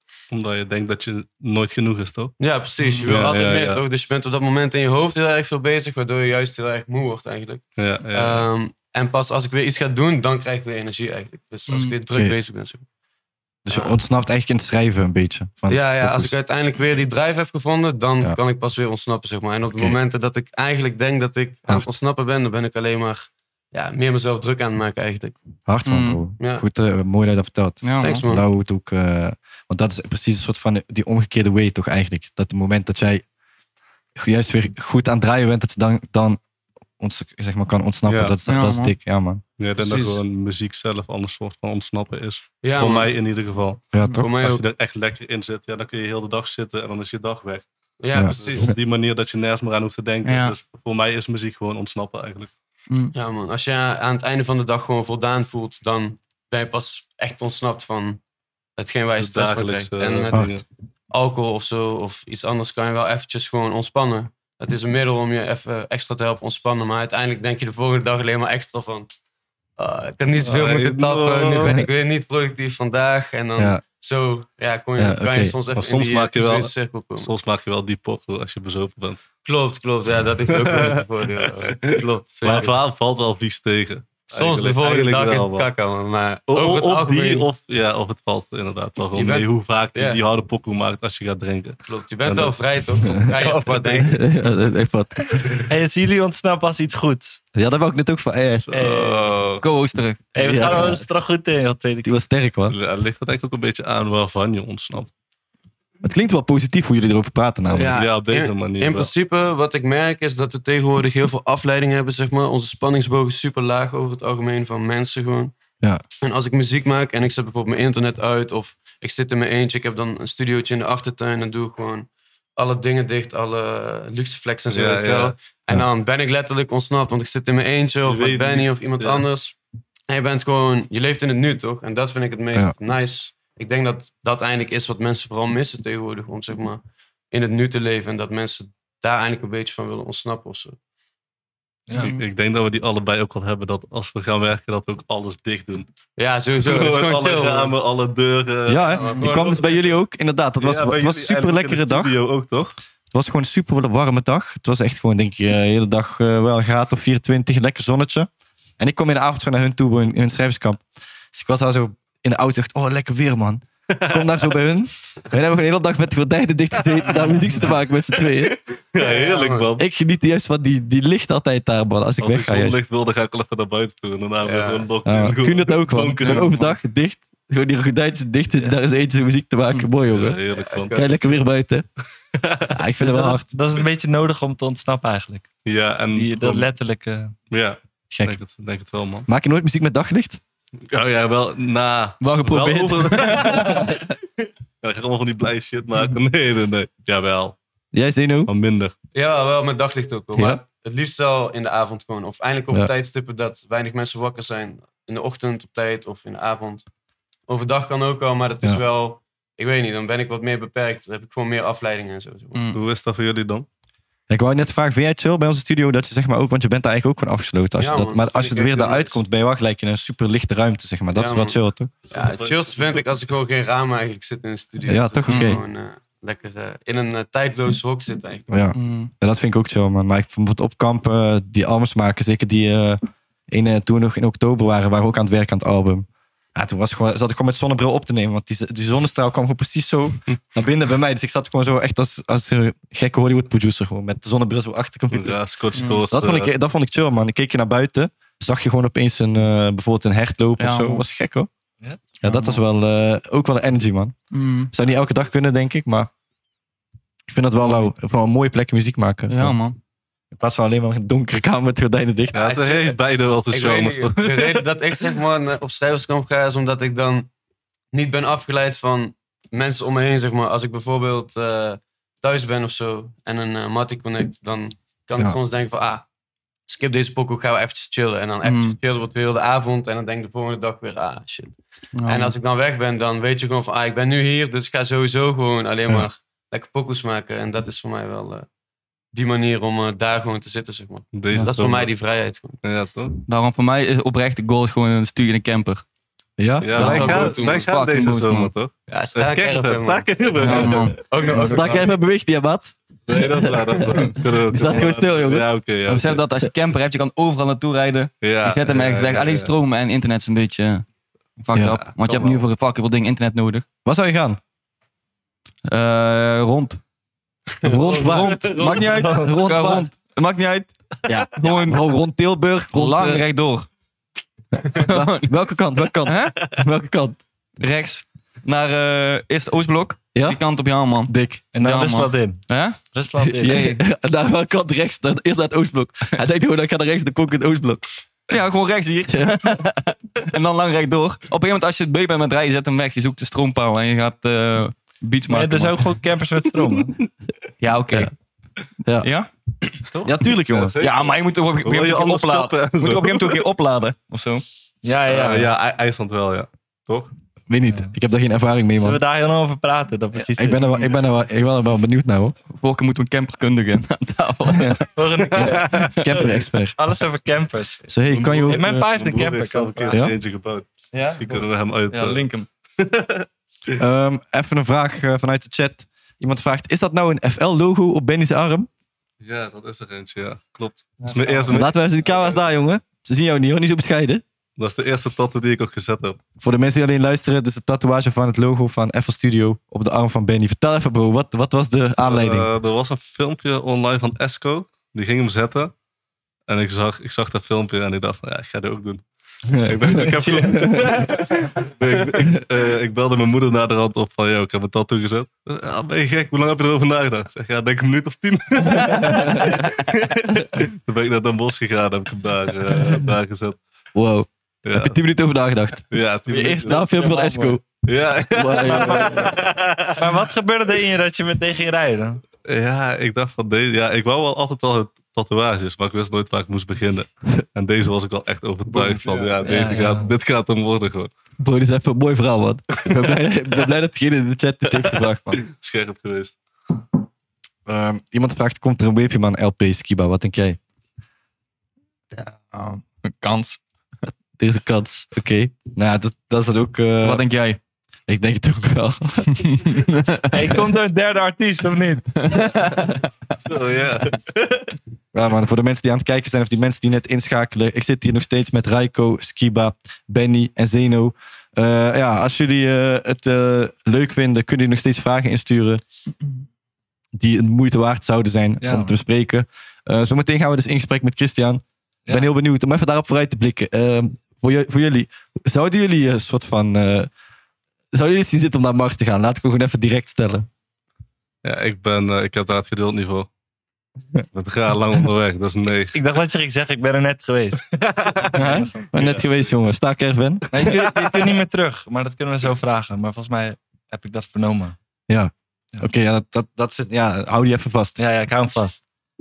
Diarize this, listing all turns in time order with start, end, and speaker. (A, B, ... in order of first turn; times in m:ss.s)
0:00.3-0:02.3 A
0:02.4-0:12.8 B
0:02.8-0:03.1 C
0:03.0-0:03.8 A
0:07.8-0:08.4 A
0:11.7-0:11.9 C
0:13.6-0:16.3 D
0:13.7-0:14.0 B
0:15.7-0:25.3 B
0:25.7-0:33.2 D
0:25.8-0:26.2 C
0:27.8-0:28.2 C
0:28.0-0:28.4 B
0:34.2-0:36.4 D
0:37.0-0:39.4 D
0:38.0-0:38.3 A
0:38.4-0:38.9 C
0:39.6-0:43.8 A
0:39.8-0:40.2 B
0:42.6-0:43.1 B
0:43.9-0:44.2 D
0:44.1-0:44.6 B
0:44.4-0:47.6 A
0:48.0-0:48.7 B
0:48.1-0:48.7 D
0:48.3-0:52.5 A
0:50.2-0:50.6 C
0:52.9-0:53.1 C
0:53.1-0:58.2 B
0:58.8-1:00.5 B
0:59.2-1:00.6 A
1:01.1-1:09.1 B
1:09.8-1:17.3 B
1:10.4-1:11.8 A
1:15.0-1:15.6 D
1:15.8-1:19.2 A
1:19.4-1:22.8 B
1:20.6-1:25.7 A
1:24.3-1:27.5 B
1:26.5-1:32.6 A
1:29.1-1:30.2 B
1:31.8-1:34.2 B
1:33.9-1:35.6 D
1:35.7-1:37.4 E
1:37.5-1:38.8 D
1:38.7-1:39.6 A
1:38.7-1:39.3 E
1:39.6-1:40.2 C
1:40.3-1:42.1 E
1:40.4-1:41.1 D
1:42.0-1:42.8 D
1:42.7-1:45.1 A
1:46.0-1:47.9 D
1:47.7-1:55.5 B
1:47.9-1:49.1 A
1:56.2-2:09.6 B
2:04.7-2:05.4 A
2:08.0-2:09.2 A
2:10.1-2:16.8 B
2:17.3-2:20.8 B
2:21.9-2:22.1 E
2:22.0-2:22.2 C
2:22.0-2:25.9 A
2:26.2-2:27.7 B
2:26.6-2:29.8 A
2:28.7-2:32.1 D
2:28.9-2:29.8 B
2:30.6-2:32.8 A
2:33.1-2:40.8 D
2:41.3-2:48.6 D
2:43.9-2:44.2 A
2:48.9-2:49.8 A
2:49.0-2:49.7 B
2:49.8-2:52.8 D
2:52.2-2:56.8 A
2:54.4-2:54.9 B
2:55.0-3:00.4 D
3:00.0-3:01.1 A
3:00.5-3:01.3 B
3:00.9-3:01.9 D
3:02.5-3:02.7 A
3:02.7-3:03.4 D
3:03.0-3:05.5 E
3:05.6-3:06.7 A
3:06.1-3:07.3 E
3:07.5-3:09.3 A
3:08.1-3:08.4 D
3:09.3-3:10.4 D
3:10.9-3:14.0 A
3:12.2-3:13.9 C
3:14.8-3:17.6 A
3:17.9-3:18.5 D
3:18.5-3:18.9 A
3:19.1-3:26.8 B
3:27.5-3:32.6 B
3:32.5-3:32.8 C
3:32.7-3:33.7 A
3:34.3-3:41.9 D
3:37.8-3:39.2 B
3:41.1-3:41.6 B
3:42.1-3:48.7 B
3:42.1-3:43.0 A
3:44.9-3:45.6 D
3:45.3-3:45.6 C
3:48.5-4:05.4 D
3:48.7-3:49.1 C
4:05.1-4:06.5 A
4:05.7-4:06.0 C
4:06.1-4:11.5 D
4:10.6-4:11.0 C
4:12.2-4:14.1 D
4:12.2-4:12.6 C
4:14.3-4:14.7 C
4:14.7-4:16.1 D
4:17.3-4:19.6 D
4:17.6-4:17.9 C
4:19.3-4:19.8 C
4:20.3-4:22.4 D
4:22.3-4:24.6 A
4:22.3-4:27.3 B
4:27.9-4:36.0 B
4:36.7-4:48.4 B
4:38.4-4:38.8 C
4:42.0-4:42.3 C
4:49.1-4:52.6 B
4:51.1-4:51.9 A
4:52.6-4:53.1 A
4:53.2-4:55.8 C
4:56.4-4:57.3 D
4:56.6-5:01.6 A
4:56.7-4:57.7 B
4:56.8-4:58.5 C
4:58.9-5:02.0 B
5:00.4-5:01.0 C
5:01.3-5:05.5 D
5:03.1-5:06.2 A
5:05.8-5:10.8 C
5:08.2-5:09.5 A
5:11.4-5:13.6 C
5:11.5-5:11.8 D
5:11.8-5:12.4 A
5:13.8-5:14.4 D
5:15.6-5:16.8 C
5:17.6-5:19.2 B
5:17.6-5:19.9 D
5:17.8-5:21.9 C
5:21.1-5:23.2 D
5:22.7-5:23.7 C
5:24.7-5:25.3 C
5:24.8-5:27.2 D
5:26.0-5:26.6 C
5:27.6-5:32.8 C
5:30.1-5:30.4 D
5:31.1-5:31.4 D
5:31.5-5:33.8 E
5:33.3-5:37.8 D
5:38.3-5:45.9 C
5:39.1-5:39.7 D
5:45.3-5:46.9 E
5:47.6-5:48.1 C
5:48.8-5:49.1 D
5:49.0-5:49.3 C
5:49.9-5:50.1 E
5:50.0-5:50.7 D
5:50.5-5:53.4 A
5:50.8-5:54.4 C
5:54.8-5:55.5 E
5:55.0-5:57.1 A
5:57.5-5:59.0 D
5:58.8-6:00.9 E
6:00.1-6:02.4 D
6:02.5-6:04.9 C
6:04.9-6:06.0 E
6:05.3-6:06.8 D
6:05.4-6:05.9 A
6:06.8-6:07.8 E
6:07.9-6:08.9 D
6:08.1-6:12.2 A
6:08.4-6:10.0 E
6:09.9-6:10.2 D
6:10.9-6:12.5 C
6:12.8-6:13.3 A
6:13.8-6:18.7 D
6:19.2-6:22.4 A
6:21.0-6:21.5 C
6:21.5-6:24.2 D
6:24.6-6:26.2 A
6:26.4-6:32.5 D
6:32.0-6:35.7 A
6:36.5-6:39.0 A
6:39.5-6:41.3 D
6:39.6-6:53.6 A
6:48.8-6:49.6 D
6:53.9-6:57.6 D
6:54.6-6:55.0 A
6:55.9-6:56.9 A
6:56.3-6:57.6 C
6:57.8-7:00.2 A
6:58.3-6:59.3 D
6:58.7-6:59.1 E
7:00.0-7:02.2 E
7:02.4-7:11.1 A
7:08.7-7:10.1 E
7:11.4-7:15.4 D
7:15.3-7:16.4 A
7:17.6-7:20.6 D
7:22.1-7:23.6 C
7:24.4-7:27.2 D
7:27.0-7:27.6 C
7:28.1-7:29.5 D
7:29.4-7:30.5 C
7:30.3-7:32.3 E
7:32.2-7:32.9 C
7:33.4-7:34.6 A
7:35.1-7:45.8 D
7:47.1-7:57.1 D
7:48.6-7:48.9 E
7:57.9-8:00.5 D
8:01.4-8:03.3 A
8:04.3-8:06.0 A
8:05.9-8:08.9 E
8:08.0-8:08.3 A
8:08.3-8:11.0 D
8:08.9-8:09.5 A
8:10.5-8:14.7 E
8:10.6-8:11.0 A
8:15.1-8:18.0 D
8:18.0-8:18.8 E